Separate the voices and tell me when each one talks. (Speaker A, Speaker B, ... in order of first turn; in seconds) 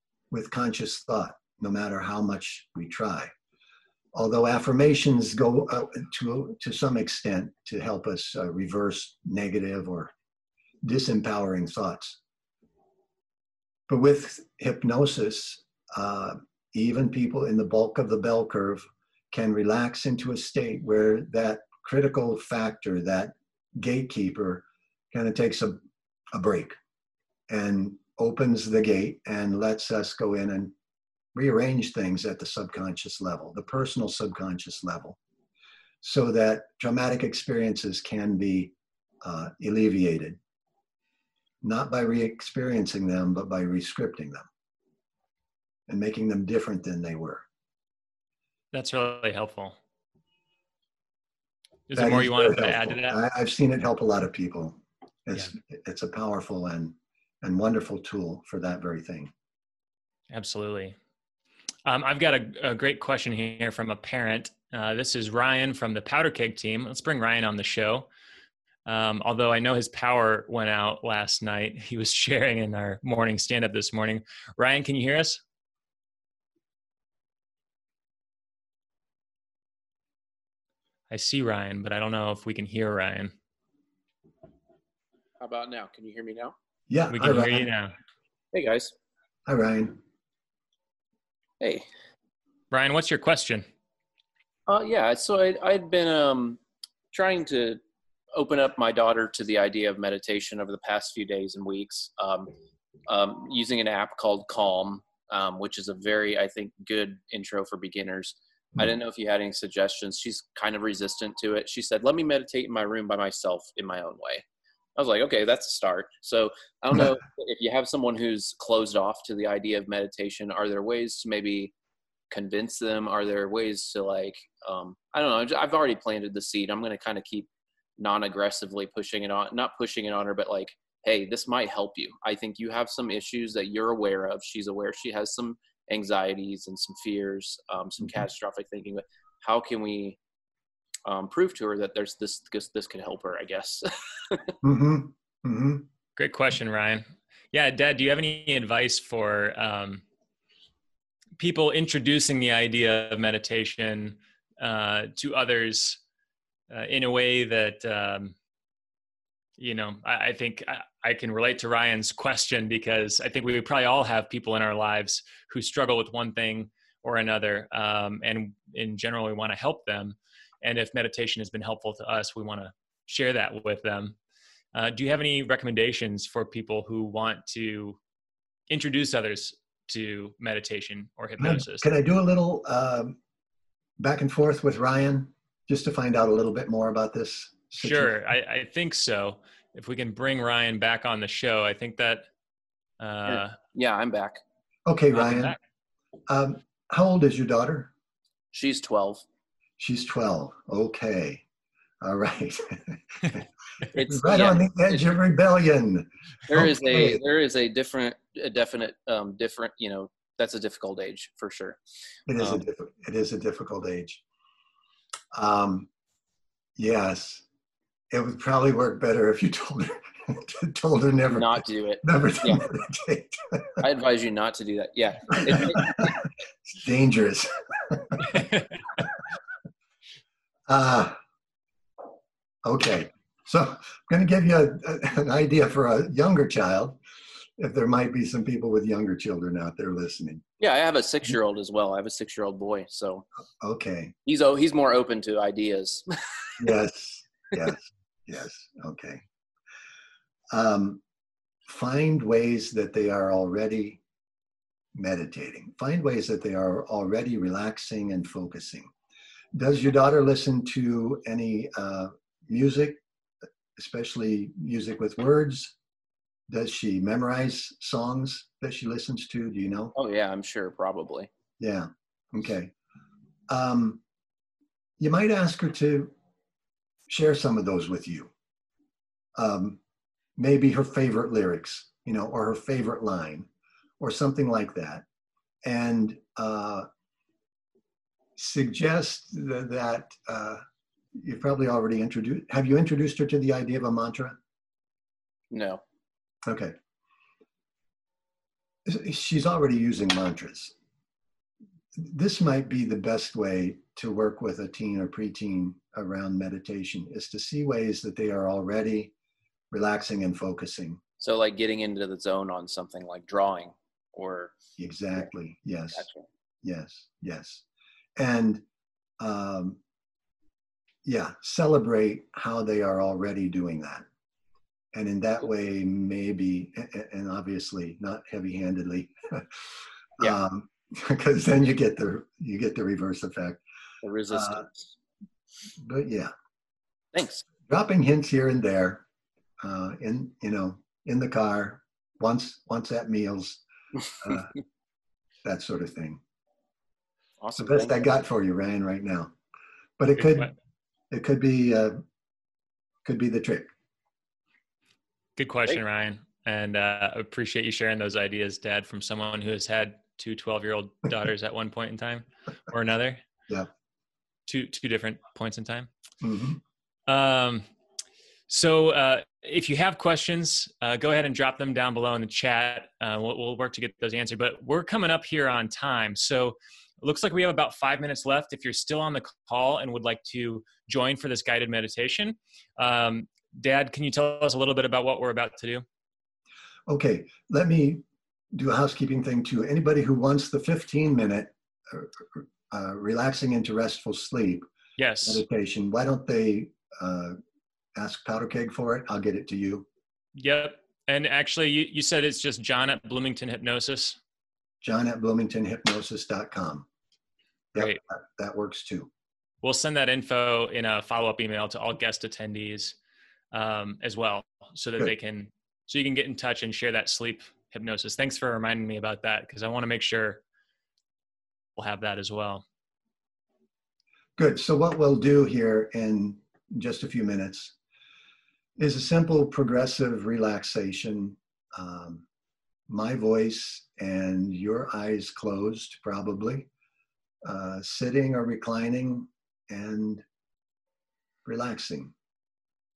Speaker A: 0.3-3.3, 4.1-10.1, 10.8-12.2, 13.9-25.8, 26.3-26.8, 27.5-30.7, 31.3-35.2, 36.0-40.4, 41.6-44.5, 45.9-47.5, 51.9-59.3, 86.9-87.7, 89.5-90.0, 144.6-145.8, 181.4-183.2, 184.0-188.1, 194.8-195.6, 196.3-197.9, 199.8-201.4, 202.0-207.2, 212.3-214.2, 215.3-215.9, 216.8-217.4, 218.1-223.8, 225.4-228.3, 230.7-231.2, 232.6-237.0, 237.6-240.4, 243.6-244.1, 246.6-249.2, 250.5-251.0, 251.7-254.0, 254.9-258.9, 259.5-263.0, 263.8-265.7, 266.5-269.9, 271.6-272.7, 273.5-274.0, 275.0-276.1, 277.1-278.3, 279.4-279.8, 280.4-283.5, 284.0-285.0, 285.6-286.9, 288.4-290.6, 291.1-294.4, 296.5-296.7, 298.8-300.7, 301.9-309.1, 309.7-311.0, 314.8-316.1, 316.6-317.6, 318.2-318.6, 319.2-319.8, 321.0-324.1, 324.9-329.6, 330.2-333.6, 334.3-334.6, 335.8-336.3, 337.7-339.0, 339.6-343.6, 344.2-344.5, 345.4-346.2, 347.6-349.3, 350.0-350.5, 351.1-352.0, 353.0-353.7, 366.2-366.6, 386.9-394.7, 395.2-397.4, 397.9-399.9, 404.8-406.9, 407.7-409.1, 424.4-427.7, 428.8-432.2, 432.9-436.7, 437.4-440.2, 441.4-442.1
Speaker B: 48.7-49.8, 51.9-53.2, 60.3-61.0, 61.9-68.1, 68.8-75.4, 81.1-83.3, 87.1-88.0, 92.7-93.7, 146.2-150.0, 151.4-156.0, 156.7-158.3, 159.6-174.2, 174.7-178.0, 178.7-181.9, 187.8-192.3, 193.0-193.6, 195.2-195.6, 355.4-363.2, 364.5-365.9, 367.1-367.6, 368.5-385.8, 395.0-395.4, 400.3-404.2, 407.8-408.0, 409.6-412.9, 413.5-420.4, 421.8-422.6
Speaker C: 85.4-86.5, 88.5-88.9, 94.7-96.6, 97.1-97.8, 98.3-102.5, 103.1-114.4, 115.0-121.7, 122.3-140.2, 141.1-144.6, 193.3-194.4, 198.5-199.2, 203.9-205.0, 206.5-211.8, 221.3-222.7, 223.8-226.2, 240.6-243.2, 244.2-246.5, 269.9-271.3, 295.5-295.8, 311.2-314.6, 315.9-316.2, 334.0-334.8, 337.1-337.4, 347.4-348.0